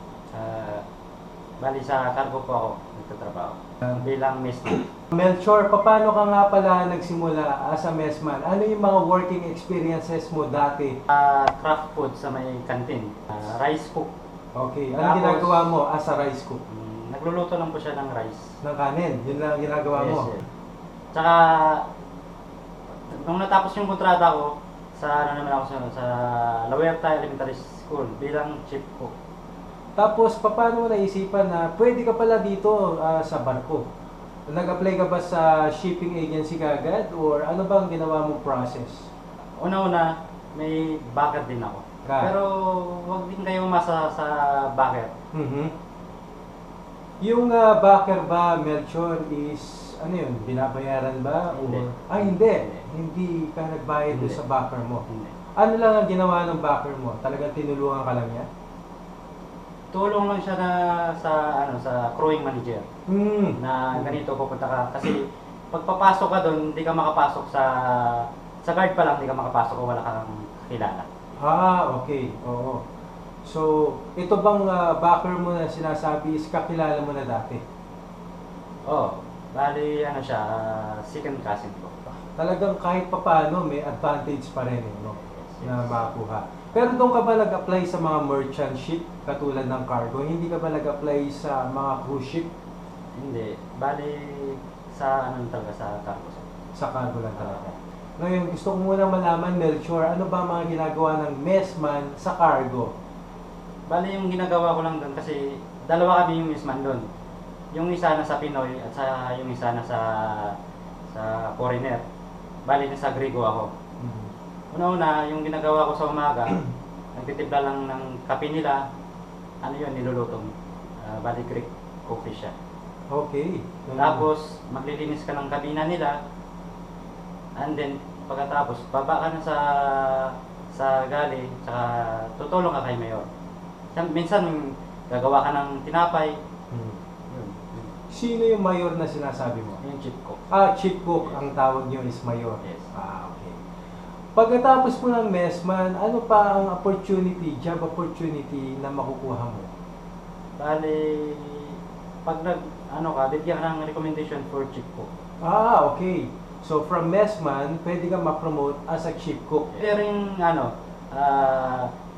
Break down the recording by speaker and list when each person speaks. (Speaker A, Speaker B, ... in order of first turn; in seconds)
Speaker A: 0.3-0.8, 1.6-4.8, 11.1-14.1, 14.9-15.7, 16.7-18.5, 19.7-20.4, 21.1-21.8, 23.1-29.1, 39.6-45.1, 51.5-52.9, 54.1-54.4, 55.1-55.3, 59.9-62.9, 63.6-71.1, 78.9-82.1, 85.2-86.0, 93.2-96.5, 97.4-97.8, 103.9-107.0, 107.7-110.6, 111.1-112.0, 112.7-113.7, 114.7-116.6, 117.2-118.8, 119.6-122.5, 124.0-126.2, 127.6-133.3, 133.9-136.4, 137.3-137.9, 139.8-140.4, 142.6-142.9, 150.6-155.1, 159.7-161.9
Speaker B: 5.1-10.9, 14.6-16.6, 18.6-20.3, 30.0-33.8, 34.5-39.1, 42.1-42.3, 45.3-45.7, 47.2-55.0, 55.6-58.5, 63.1-64.2, 71.4-72.8, 73.5-77.6, 82.4-92.5, 96.8-97.6, 98.2-102.9, 114.0-114.3, 123.1-124.3, 136.7-137.0, 138.1-139.8, 140.5-143.6, 144.4-149.7, 155.4-159.7